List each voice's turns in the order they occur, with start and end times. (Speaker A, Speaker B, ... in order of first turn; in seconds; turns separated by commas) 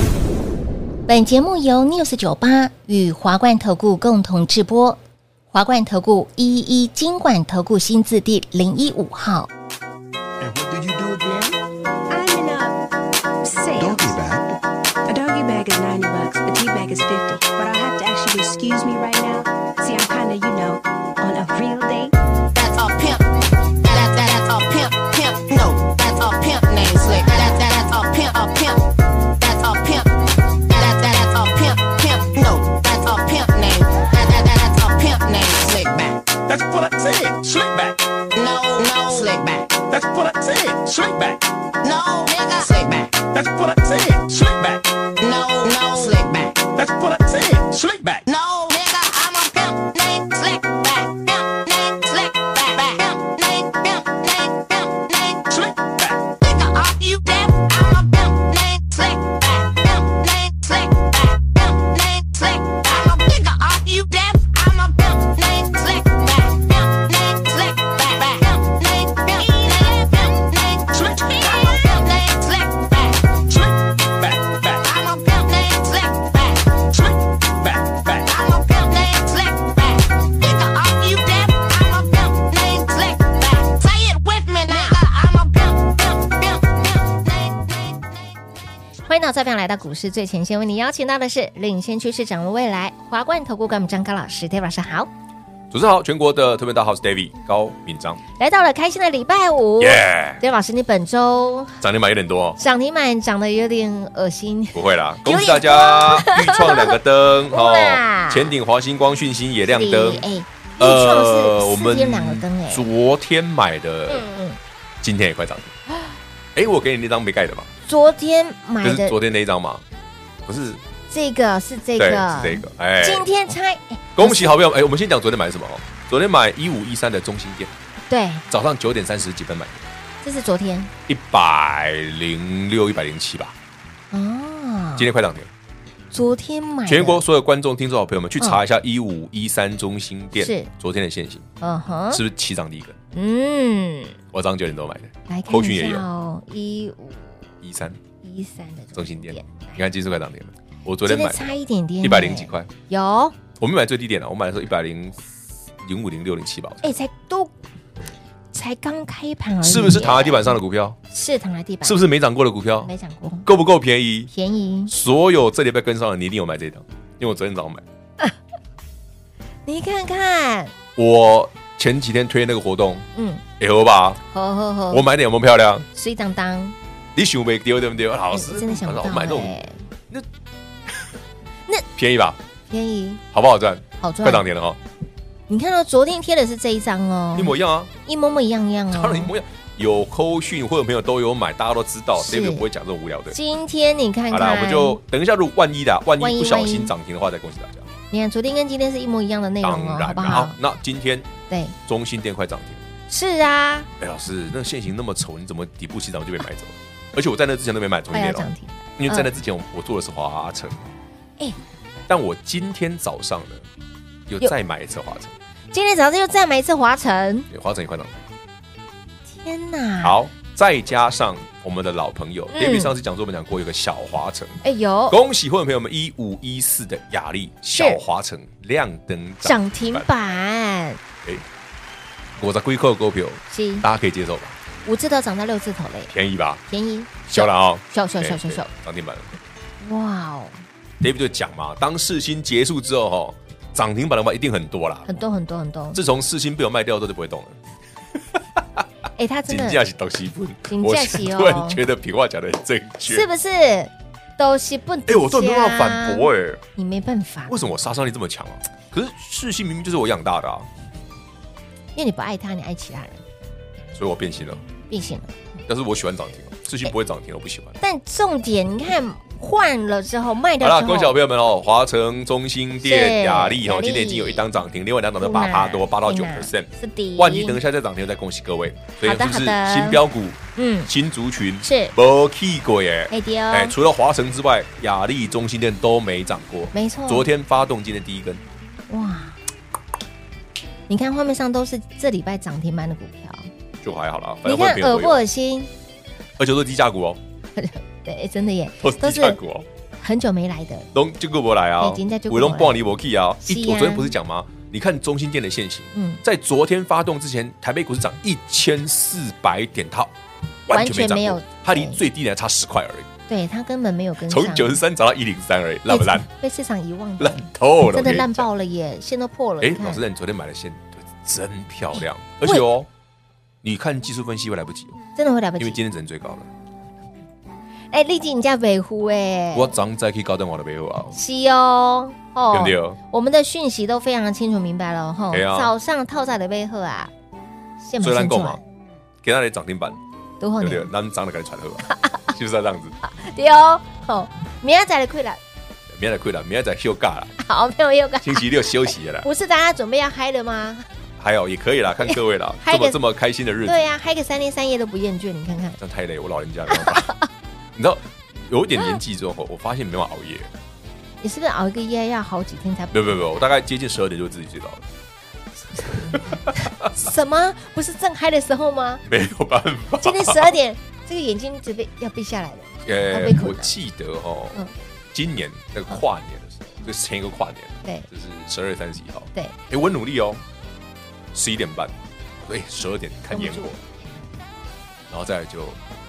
Speaker A: 1.1-5.0, Speaker A: 5.5-9.5, Speaker B: 10.4-11.6, Speaker C: 12.1-12.8, Speaker C: 13.4-14.4, Speaker B: 13.7-14.4, Speaker C: 15.1-22.1, Speaker D: 22.5-88.2, Speaker A: 84.7-85.0, Speaker A: 89.1-95.1, Speaker E: 95.7-98.2, Speaker A: 98.4-101.8, Speaker E: 99.8-100.4, Speaker E: 101.8-102.6, Speaker A: 102.6-107.0, Speaker E: 104.7-110.2, Speaker A: 107.5-108.5, Speaker A: 109.7-112.9, Speaker E: 110.8-114.3, Speaker A: 114.1-114.6, Speaker E: 115.0-115.7, Speaker E: 116.5-117.7, Speaker A: 117.8-119.2, Speaker E: 118.8-119.8, Speaker E: 120.4-120.8, Speaker A: 121.1-124.6, Speaker E: 122.0-123.3, Speaker E: 124.2-127.7, Speaker A: 128.1-128.4, Speaker E: 128.5-129.8, Speaker A: 130.2-130.9, Speaker E: 131.1-133.5, Speaker A: 134.1-135.1, Speaker E: 135.0-135.5, Speaker A: 136.1-137.2, Speaker E: 136.8-141.5, Speaker A: 140.4-140.7, Speaker A: 141.6-142.2, Speaker E: 142.1-143.0, Speaker A: 143.1-144.2, Speaker E: 144.3-146.0, Speaker A: 145.3-147.4, Speaker E: 147.6-148.0, Speaker A: 148.2-149.8, Speaker E: 148.9-152.7, Speaker A: 151.0-153.3, Speaker E: 153.6-155.2, Speaker E: 155.8-156.9, Speaker A: 156.8-157.5, Speaker A: 158.5-160.6, Speaker E: 159.6-161.0, Speaker A: 161.1-162.0, Speaker E: 161.8-162.9, Speaker A: 162.8-163.5, Speaker E: 163.4-164.3, Speaker A: 164.3-164.9, Speaker E: 164.9-167.8, Speaker A: 169.7-170.7, Speaker E: 170.9-173.0, Speaker A: 173.2-173.4, Speaker E: 173.6-174.2, Speaker A: 174.3-175.1, Speaker E: 174.9-175.8, Speaker A: 175.9-176.8, Speaker E: 177.1-179.6, Speaker A: 178.3-179.8, Speaker E: 181.9-182.4, Speaker A: 182.7-183.2, Speaker E: 183.3-184.8, Speaker A: 184.0-184.5, Speaker A: 185.5-189.3, Speaker E: 187.3-187.9, Speaker E: 188.9-193.4, Speaker A: 192.2-192.7, Speaker A: 193.3-195.0, Speaker E: 194.3-197.9, Speaker A: 196.2-196.9, Speaker A: 198.1-200.6, Speaker E: 199.6-201.3, Speaker A: 201.5-201.8, Speaker E: 201.8-202.8, Speaker A: 203.1-203.9, Speaker E: 204.0-210.9, Speaker A: 208.1-209.3, Speaker E: 212.1-213.6, Speaker E: 214.3-215.3, Speaker A: 215.7-217.5, Speaker E: 217.5-218.2, Speaker A: 219.3-220.2, Speaker E: 220.0-230.1, Speaker A: 222.5-222.9, Speaker A: 224.6-225.2, Speaker A: 227.7-228.0, Speaker A: 229.4-231.0, Speaker E: 232.4-234.6, Speaker A: 233.5-233.8, Speaker A: 234.8-236.1, Speaker E: 236.1-236.6, Speaker A: 236.7-238.7, Speaker E: 237.3-239.3, Speaker A: 239.8-240.6, Speaker E: 241.0-245.1, Speaker A: 245.1-246.0, Speaker E: 245.9-247.6, Speaker E: 248.3-248.8, Speaker A: 249.2-249.8, Speaker E: 249.5-253.3, Speaker A: 250.7-251.8, Speaker A: 253.0-257.7, Speaker E: 255.1-256.6, Speaker E: 257.5-260.7, Speaker A: 261.9-263.2, Speaker E: 263.9-264.6, Speaker A: 264.9-265.4, Speaker E: 265.7-267.8, Speaker A: 267.8-271.1, Speaker E: 270.6-288.4, Speaker A: 272.8-274.4, Speaker A: 275.2-277.6, Speaker A: 279.0-280.0, Speaker A: 280.6-280.9, Speaker A: 281.6-281.9, Speaker A: 283.1-283.8, Speaker A: 286.7-287.3, Speaker A: 288.9-289.4, Speaker A: 290.9-293.5, Speaker E: 293.8-295.2, Speaker A: 294.4-295.7, Speaker E: 296.4-297.2, Speaker A: 297.6-299.4, Speaker E: 298.8-299.6, Speaker A: 300.0-300.9, Speaker E: 300.9-310.1, Speaker A: 301.8-302.8, Speaker A: 303.4-304.1, Speaker A: 305.9-306.2, Speaker E: 310.7-313.1, Speaker A: 310.7-312.0, Speaker A: 313.3-314.8, Speaker E: 314.2-316.2, Speaker A: 315.9-320.0, Speaker E: 317.2-318.5, Speaker E: 319.6-322.9, Speaker E: 323.6-325.0, Speaker A: 325.1-325.8, Speaker E: 325.6-326.5, Speaker A: 327.9-329.7, Speaker E: 329.5-331.2, Speaker A: 331.1-337.1, Speaker E: 332.5-333.0, Speaker E: 335.3-335.7, Speaker A: 337.8-338.6, Speaker E: 338.0-338.6, Speaker E: 339.2-340.0, Speaker A: 340.4-340.9, Speaker E: 340.6-343.0, Speaker A: 341.9-342.2, Speaker A: 343.0-345.4, Speaker E: 345.9-347.3, Speaker A: 347.4-350.9, Speaker E: 348.2-349.3, Speaker E: 351.2-353.8, Speaker A: 352.1-353.0, Speaker A: 353.6-355.8, Speaker E: 355.8-357.1, Speaker A: 356.7-357.2, Speaker E: 357.7-360.5, Speaker A: 361.2-363.0, Speaker E: 362.9-364.8, Speaker A: 365.8-369.0, Speaker E: 365.8-366.9, Speaker E: 369.1-370.5, Speaker A: 370.0-373.7, Speaker E: 372.9-380.4, Speaker E: 381.3-383.8, Speaker A: 383.3-383.7, Speaker E: 385.1-385.8